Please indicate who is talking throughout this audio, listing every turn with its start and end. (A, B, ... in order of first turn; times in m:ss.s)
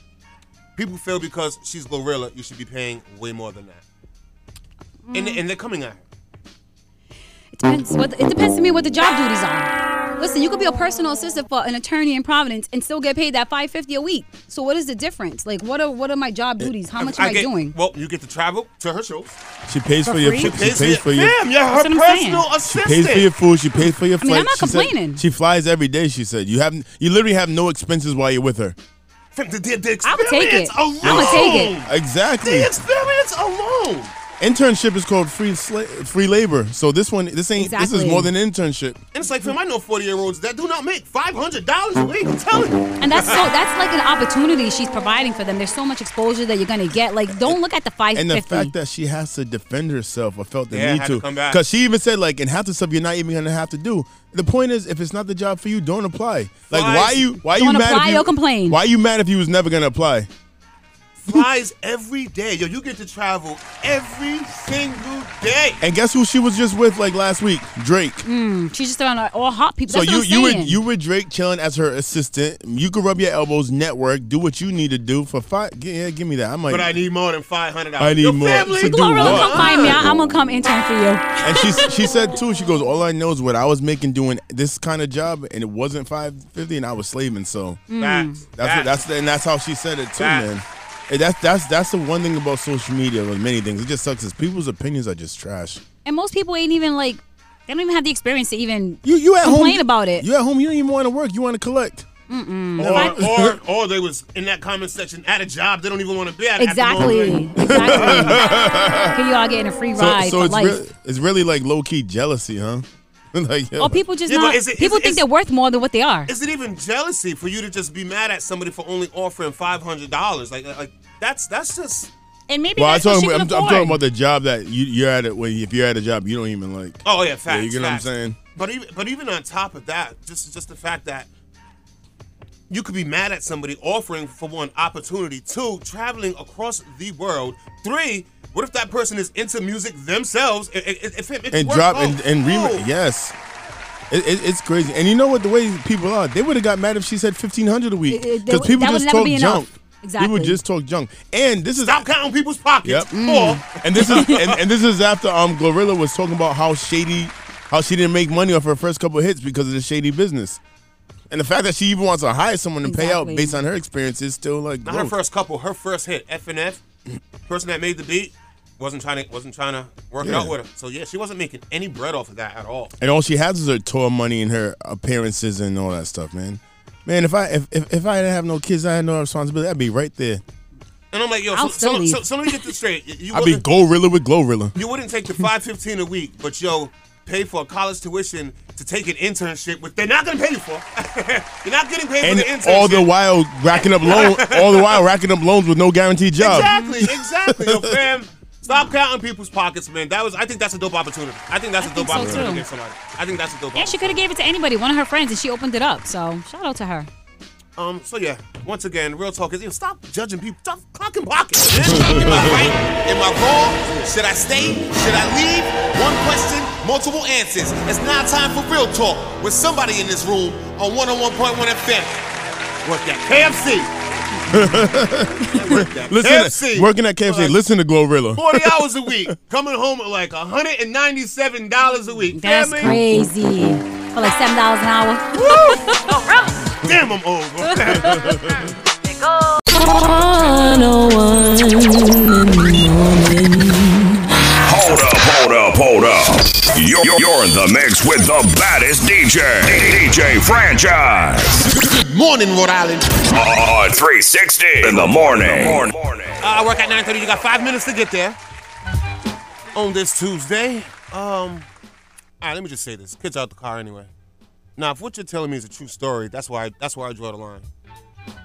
0:00.8-0:03.8 A
0:05.1-0:05.4 B
0:05.1-0:06.0 A
0:07.5-0:17.8 B
0:17.0-0:19.4 A
0:19.7-0:21.4 C
0:20.0-0:20.7 B
0:20.4-0:23.3 A
0:21.7-0:22.5 B
0:22.7-0:28.8 C
0:24.2-0:25.2 B
0:29.4-0:31.9 A
0:30.0-0:31.8 B
0:31.0-0:32.7 C
0:32.4-0:34.1 A
0:34.4-0:39.0 C
0:37.6-0:38.3 B
0:39.1-0:43.5 A
0:43.0-0:48.7 B
0:48.1-1:00.3 C
0:50.7-0:51.6 A
0:56.7-0:57.3 A
0:57.4-0:58.8 B
1:01.2-1:05.8 A
1:05.8-1:08.2 C
1:08.2-1:10.8 B
1:09.9-1:17.0 C
1:16.7-1:20.0 A
1:18.0-1:20.0 C
1:18.7-1:22.0 B
1:21.4-1:27.9 C
1:27.9-1:28.5 B
1:28.0-1:29.0 A
1:28.6-1:35.8 C
1:30.2-1:30.5 A
1:36.0-1:40.3 B
1:39.0-1:42.1 C
1:42.3-1:43.2 B
1:42.8-1:48.4 A
1:42.8-1:43.6 C
1:46.6-1:48.5 B
1:47.0-1:49.2 C
1:49.1-1:50.8 B
1:50.0-1:54.0 C
1:53.8-1:56.3 B
1:54.3-1:55.3 A
1:56.3-2:02.1 A
2:02.5-2:04.0 B
2:02.8-2:08.4 C
2:07.0-2:11.3 A
2:12.7-2:22.9 A
2:21.5-2:23.4 C
2:24.1-2:32.0 C
2:28.1-2:30.6 B
2:31.8-2:34.6 A
2:33.1-2:34.5 B
2:33.8-2:40.6 C
2:41.3-2:45.1 C
2:42.8-2:43.6 B
2:44.8-2:46.8 A
2:47.5-2:52.9 A
2:50.2-2:50.5 C
2:53.0-3:00.4 C
3:01.1-3:03.6 A
3:01.5-3:02.7 B
3:03.3-3:04.7 C
3:04.8-3:13.1 A
3:12.2-3:18.0 C
3:13.7-3:15.0 A
3:16.4-3:24.2 A
3:16.5-3:17.0 B
3:21.8-3:22.6 B
3:22.2-3:22.5 C
3:23.8-3:27.1 B
3:27.8-3:42.2 A
3:31.8-3:32.8 C
3:42.8-3:43.9 A
3:44.5-3:48.8 C
3:45.5-3:47.6 A
3:48.4-3:53.0 A
3:52.4-3:56.5 B
3:55.4-3:56.2 A
3:56.8-3:58.5 A
3:57.6-3:58.4 B
3:58.2-3:58.5 C
4:04.6-4:11.6 D
4:12.1-4:13.2 A
4:13.3-4:16.5 D
4:16.4-4:18.4 A
4:19.8-4:21.7 A
4:22.4-4:24.1 A
4:24.8-4:27.6 A